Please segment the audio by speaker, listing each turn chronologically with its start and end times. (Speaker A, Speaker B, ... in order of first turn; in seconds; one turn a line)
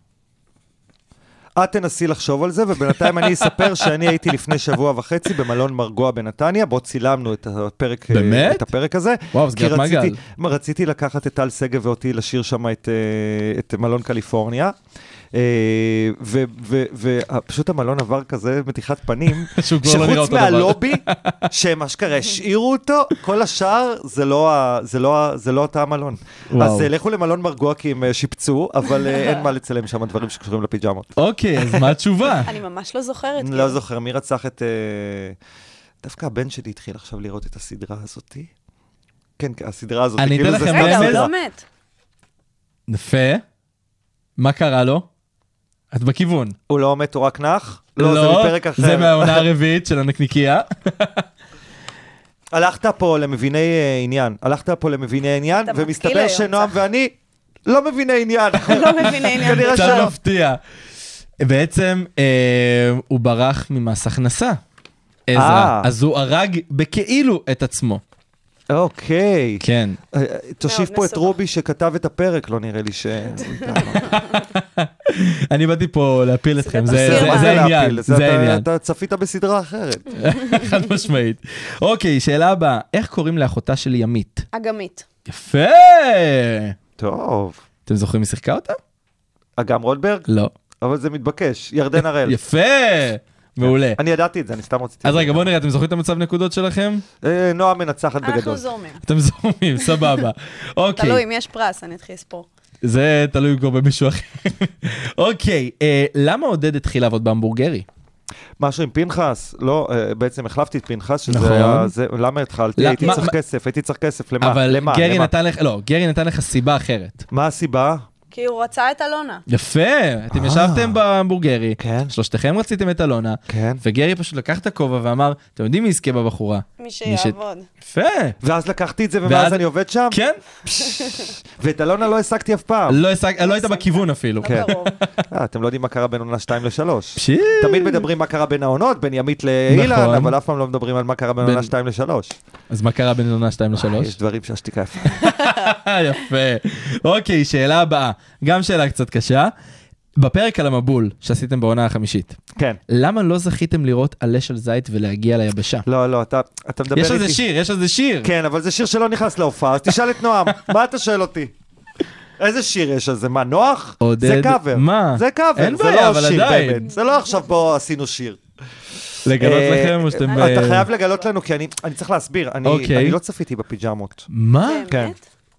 Speaker A: 1.6-14.7
Speaker B: 8.1-8.7
Speaker B: 9.3-10.2
Speaker A: 15.3-31.9
Speaker B: 19.5-21.4
Speaker B: 26.5-26.9
Speaker B: 31.2-32.5
Speaker C: 32.5-33.8
Speaker A: 33.4-35.4
Speaker A: 36.0-38.5
Speaker A: 39.4-41.3
Speaker B: 40.2-41.3
Speaker C: 40.6-41.6
Speaker B: 42.9-43.4
Speaker B: 44.4-45.1
Speaker B: 45.9-46.5
Speaker A: 46.7-49.5
Speaker B: 48.0-51.2
Speaker A: 52.5-57.1
Speaker C: 55.6-56.7
Speaker A: 57.6-60.1
Speaker C: 58.6-60.1
Speaker B: 59.4-60.6
Speaker B: 61.4-64.6
Speaker B: 65.3-68.0
Speaker A: 65.3-65.9
Speaker A: 68.7-74.1
Speaker B: 69.6-70.0
Speaker C: 70.6-71.3
Speaker B: 74.0-78.7
Speaker C: 76.6-77.7
Speaker A: 76.9-80.1
Speaker B: 80.2-84.5
Speaker C: 84.5-85.0
Speaker B: 85.3-86.7
Speaker A: 87.0-87.6
Speaker B: 87.8-88.8
Speaker A: 89.6-90.3
Speaker B: 90.3-90.5
Speaker A: 90.8-92.3
Speaker B: 92.2-94.0
Speaker A: 93.6-95.5
Speaker B: 95.0-97.0
Speaker A: 97.2-98.6
Speaker C: 98.2-99.0
Speaker B: 99.0-101.2
Speaker C: 101.0-102.5
Speaker B: 102.8-107.8
Speaker A: 108.6-115.3
Speaker B: 111.3-111.9
Speaker B: 112.8-113.3
Speaker B: 114.4-117.2
Speaker A: 117.3-118.0
Speaker C: 118.3-119.4
Speaker B: 119.5-128.3
Speaker A: 120.3-121.0
Speaker A: 121.8-122.1
Speaker A: 123.5-123.8
Speaker C: 126.8-127.7
Speaker A: 128.4-130.2
Speaker B: 129.2-130.4
Speaker A: 130.7-133.0
Speaker C: 130.8-131.2
Speaker B: 132.9-134.9
Speaker C: 133.4-135.0
Speaker A: 134.4-134.7
Speaker A: 135.3-142.3
Speaker B: 137.2-138.0
Speaker B: 139.7-140.3
Speaker B: 141.4-141.7
Speaker B: 142.7-144.1
Speaker A: 143.8-145.2
Speaker B: 145.1-149.5
Speaker B: 150.2-152.4
Speaker B: 152.9-155.8
Speaker A: 155.8-157.4
Speaker B: 156.9-158.3
Speaker A: 158.2-161.5
Speaker A: 162.4-168.4
Speaker B: 164.0-166.8
Speaker B: 169.2-170.9
Speaker A: 169.4-174.3
Speaker B: 172.6-173.2
Speaker B: 174.3-174.9
Speaker C: 174.6-175.2
Speaker A: 174.9-175.1